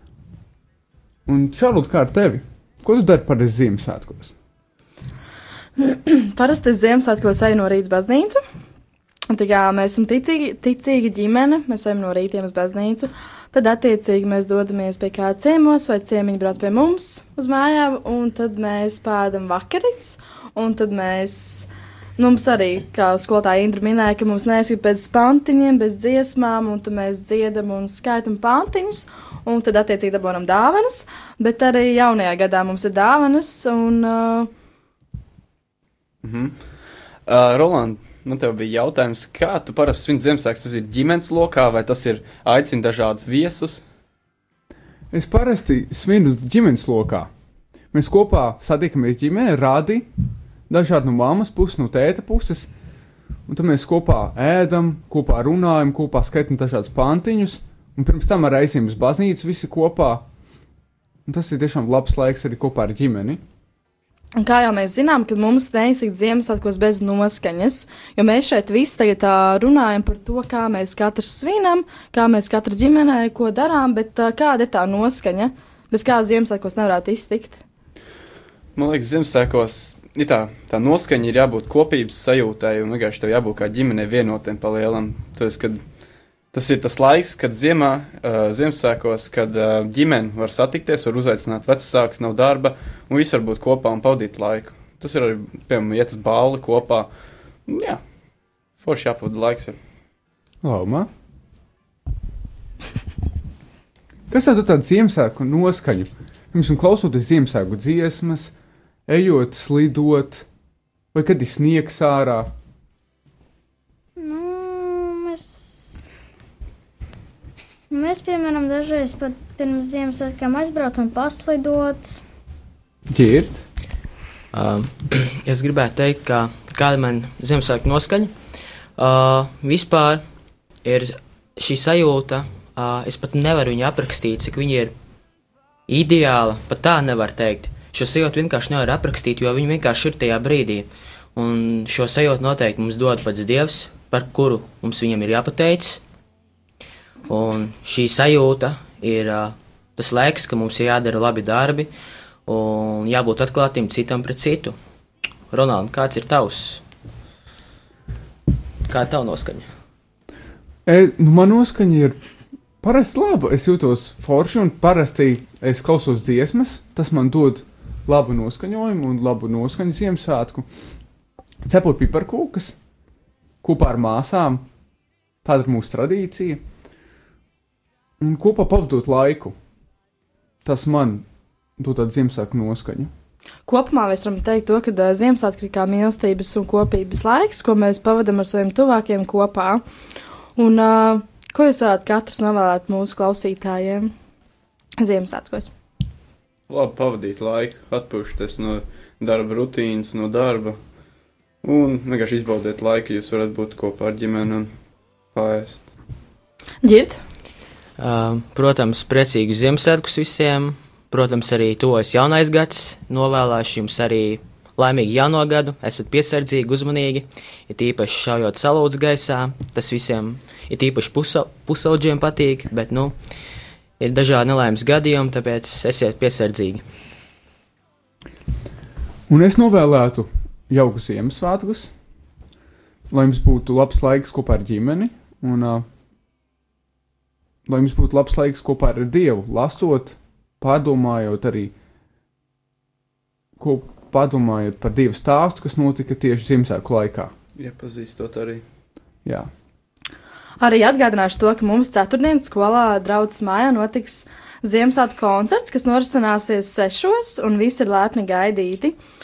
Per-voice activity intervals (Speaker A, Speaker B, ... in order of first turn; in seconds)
Speaker A: 1.3-4.3, 45.1-47.3, 47.9-50.1, 50.7-52.7, 53.5-60.2, 61.3-63.4, 100.6-101.1, 104.3-108.5, 109.1-110.5, 111.1-112.5, 123.1-123.6, 160.9-162.2, 162.8-170.7, 171.7-172.8, 173.6-174.7, 175.4-176.6, 178.2-179.6, 180.7-181.2, 181.8-183.1, 229.3-231.9, 233.1-235.9, 237.7-241.7, 243.6-247.3, 249.2-249.5
Speaker B: 5.8-8.4, 9.3-34.5, 64.4-77.6, 183.7-189.8, 190.6-194.1, 195.0-195.7, 206.8-207.2, 250.6-258.9
Speaker C: 36.2-36.6, 37.3-43.8, 78.8-85.8, 86.5-97.1, 97.7-98.0, 98.8-99.8, 196.7-200.8, 201.6-204.7, 205.3-205.9, 247.6-248.6
Speaker D: 114.2-116.0, 117.9-122.2
Speaker E: 124.5-128.3, 129.0-130.2, 130.8-134.9, 135.9-146.0, 147.3-151.9, 152.5-154.8, 155.5-156.8, 158.9-159.7, 208.0-223.2, 224.0-226.8